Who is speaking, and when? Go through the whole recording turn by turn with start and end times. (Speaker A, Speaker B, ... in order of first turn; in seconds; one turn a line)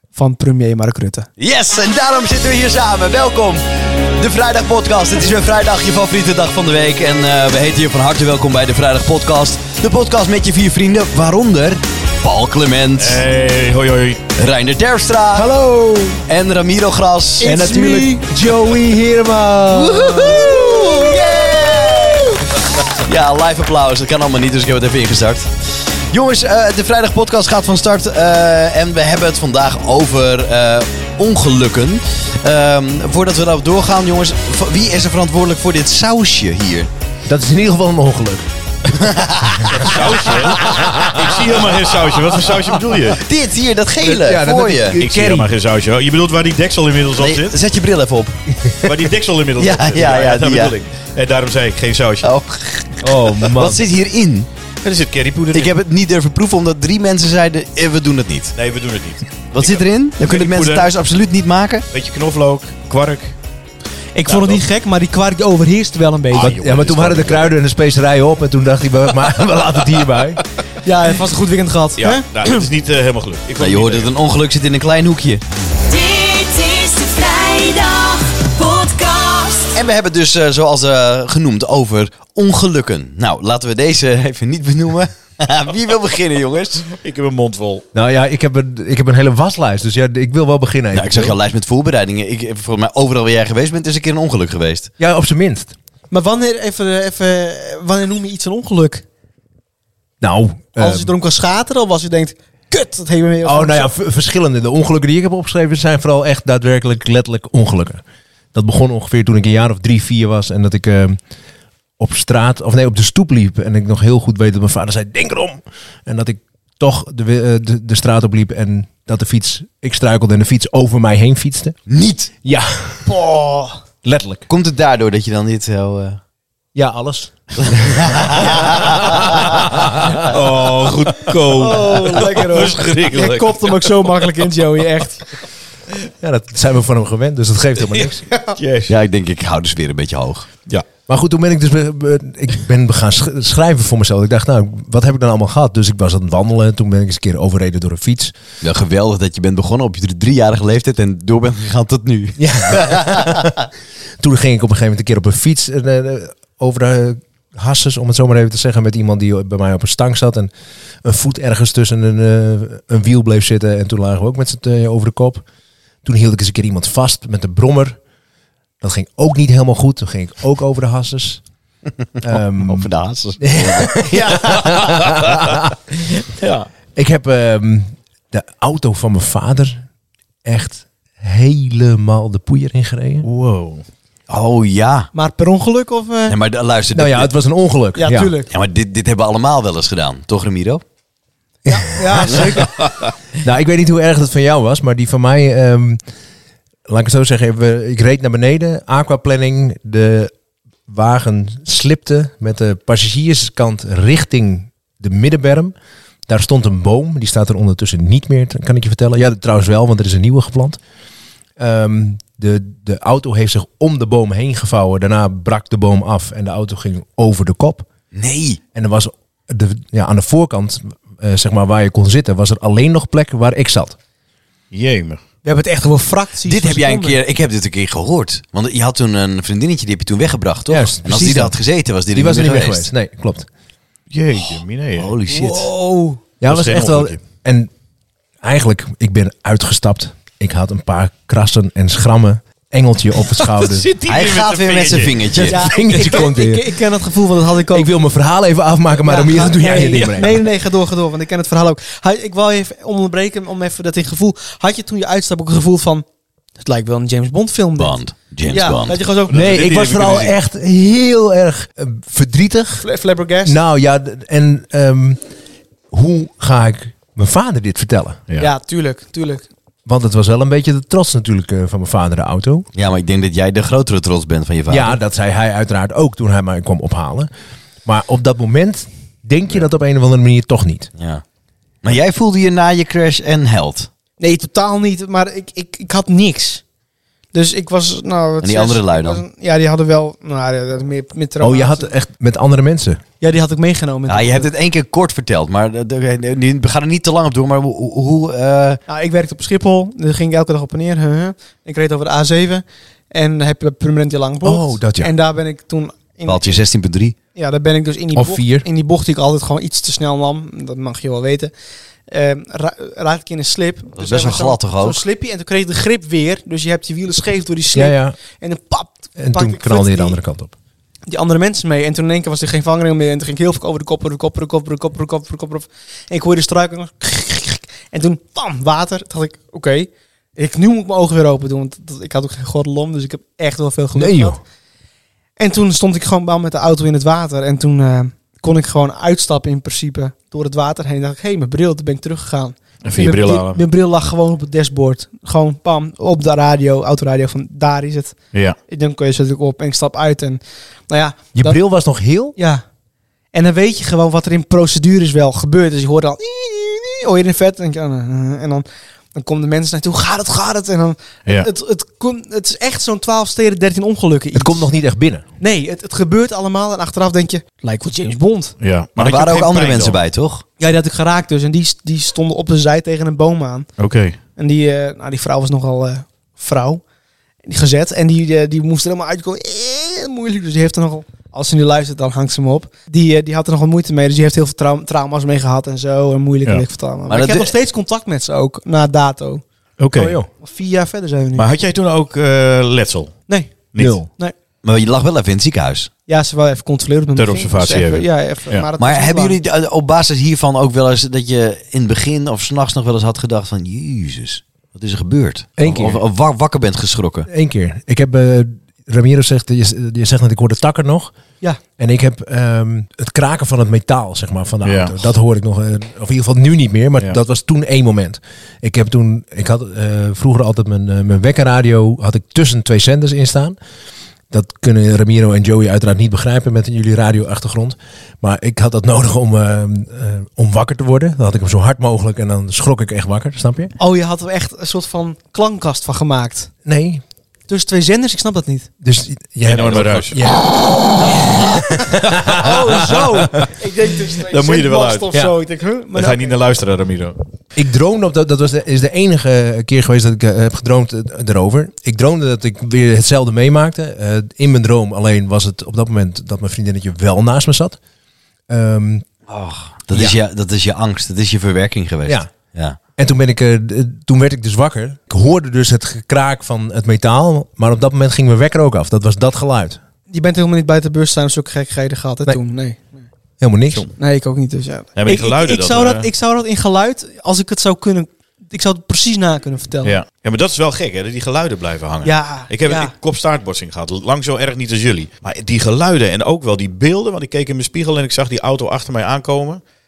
Speaker A: 0.1-1.3
Speaker B: 1.4-13.2
Speaker C: 13.0-14.3
Speaker B: 14.3-15.5
Speaker A: 15.3-16.2
Speaker B: 16.3-17.6
Speaker A: 17.4-18.3
Speaker D: 17.4-20.4
Speaker B: 19.8-22.3
Speaker A: 19.9-21.2
Speaker B: 22.8-25.5
Speaker B: 26.1-36.9
Speaker D: 37.2-38.5
Speaker B: 38.9-40.9
Speaker D: 39.6-39.9
Speaker C: 39.6-43.2
Speaker D: 40.5-41.3
Speaker B: 43.1-45.0
Speaker D: 44.0-45.5
Speaker C: 44.9-47.6
Speaker B: 47.2-48.4
Speaker D: 48.6-48.9
Speaker C: 48.8-52.3
Speaker B: 49.6-50.7
Speaker B: 52.2-54.5
Speaker D: 53.0-53.8
Speaker C: 54.8-55.7
Speaker B: 55.5-58.5
Speaker C: 58.5-60.9
Speaker B: 59.5-61.9
Speaker C: 61.9-63.4
Speaker A: 64.1-66.5
Speaker C: 64.2-64.6
Speaker C: 66.3-67.5
Speaker D: 66.4-70.4
Speaker A: 70.8-72.6
Speaker C: 72.0-74.1
Speaker B: 73.6-75.4
Speaker E: 75.8-79.8
Speaker B: 79.7-86.9
Speaker C: 86.9-87.8
Speaker D: 87.9-91.4
Speaker B: 90.9-94.9
Speaker D: 95.0-95.7
Speaker A: 96.1-99.0
Speaker D: 100.2-101.1
Speaker A: 100.8-103.9
Speaker D: 103.4-108.0
Speaker D: 108.5-111.2
Speaker D: 112.0-121.8
Speaker B: 121.9-122.3
Speaker D: 122.4-123.1
Speaker A: 123.0-123.8
Speaker D: 124.0-124.5
Speaker B: 124.5-126.2
Speaker D: 126.7-130.3
Speaker B: 127.6-129.7
Speaker C: 130.2-133.9
Speaker A: 131.5-135.2
Speaker D: 136.2-138.3
Speaker C: 138.5-138.9
Speaker B: 138.9-140.5
Speaker D: 141.1-148.3
Speaker B: 148.6-153.5
Speaker D: 152.4-153.5
Speaker D: 154.2-160.5
Speaker D: 161.0-165.4
Speaker D: 166.0-168.0
Speaker D: 168.8-171.4
Speaker D: 172.2-175.8
Speaker B: 172.6-174.5
Speaker C: 174.3-175.3
Speaker C: 176.2-176.7
Speaker D: 176.9-179.8
Speaker D: 180.4-183.2
Speaker C: 183.2-183.8
Speaker B: 184.3-185.1
Speaker A: 185.1-186.4
Speaker B: 186.3-187.3
Speaker D: 186.9-188.3
Speaker A: 188.0-188.5
Speaker B: 188.5-190.8
Speaker A: 191.7-192.7
Speaker D: 191.7-192.6
Speaker C: 192.8-193.1
Speaker D: 193.4-196.0
Speaker D: 196.9-200.3
Speaker D: 200.9-205.7
Speaker D: 206.3-210.8
Speaker D: 211.6-217.9
Speaker B: 218.1-218.6
Speaker D: 218.7-224.0
Speaker C: 224.7-225.2
Speaker A: 225.4-227.2
Speaker B: 226.4-232.9
Speaker D: 230.7-231.6
Speaker D: 232.1-233.5
Speaker C: 234.1-235.1
Speaker B: 234.9-235.7
Speaker A: 235.3-236.2
Speaker D: 236.4-237.7
Speaker C: 236.4-237.2
Speaker D: 238.4-243.9
Speaker C: 243.4-245.6
Speaker B: 244.0-245.6
Speaker A: 245.4-247.9
Speaker D: 245.6-246.7
Speaker D: 247.7-250.4
Speaker A: 249.0-256.0
Speaker A: 256.6-259.4
Speaker B: 257.8-259.1
Speaker C: 259.3-260.4
Speaker D: 259.3-262.8
Speaker A: 262.8-263.6
Speaker D: 263.4-265.2
Speaker D: 265.9-268.2
Speaker A: 268.4-269.4
Speaker D: 269.9-272.7
Speaker B: 272.7-274.9
Speaker D: 274.7-277.3
Speaker D: 277.8-280.9
Speaker B: 281.0-281.2
Speaker B: 281.8-283.9
Speaker A: 284.2-286.6
Speaker A: 287.3-291.9
Speaker B: 288.4-289.2
Speaker D: 291.4-293.0
Speaker A: 293.2-294.4
Speaker B: 294.1-298.8
Speaker A: 298.9-306.6
Speaker D: 304.4-305.1
Speaker B: 306.2-307.1
Speaker A: 307.3-311.5
Speaker D: 308.1-308.6
Speaker A: 312.1-320.2
Speaker B: 314.0-315.0
Speaker D: 317.7-318.1
Speaker D: 319.2-320.5
Speaker A: 321.1-334.4
Speaker D: 333.9-334.4
Speaker A: 335.4-348.1
Speaker C: 342.8-343.6
Speaker A: 348.7-351.6
Speaker D: 351.3-352.4
Speaker A: 352.4-352.6
Speaker A: 353.3-364.7
Speaker D: 364.3-365.2
Speaker A: 365.4-368.5
Speaker C: 368.6-370.0
Speaker B: 369.0-370.4
Speaker A: 370.6-373.7
Speaker C: 373.8-374.2
Speaker A: 374.4-376.8
Speaker A: 377.4-389.4
Speaker B: 387.1-387.5
Speaker C: 389.8-390.2
Speaker D: 389.9-390.3
Speaker A: 390.3-391.5
Speaker C: 391.4-393.2
Speaker A: 393.3-393.6
Speaker C: 393.7-394.0
Speaker D: 393.8-394.1
Speaker B: 394.6-395.9
Speaker A: 396.1-399.4
Speaker C: 397.1-398.6
Speaker B: 398.8-407.3
Speaker D: 405.6-406.0
Speaker D: 407.3-411.1
Speaker D: 411.8-423.6
Speaker C: 414.6-415.0
Speaker D: 424.3-433.7
Speaker A: 433.8-436.5
Speaker D: 436.6-437.0
Speaker A: 437.5-438.7
Speaker D: 438.8-443.5
Speaker C: 439.4-440.2
Speaker A: 442.3-446.4
Speaker C: 444.2-445.2
Speaker C: 445.9-447.2
Speaker D: 447.5-457.8
Speaker D: 458.5-459.1
Speaker B: 459.3-462.8
Speaker D: 459.9-460.2
Speaker D: 462.1-462.3
Speaker D: 463.0-469.8
Speaker A: 470.1-473.1
Speaker D: 473.4-473.9
Speaker A: 474.0-480.0
Speaker C: 474.9-476.1
Speaker C: 479.8-489.6
Speaker A: 482.0-482.9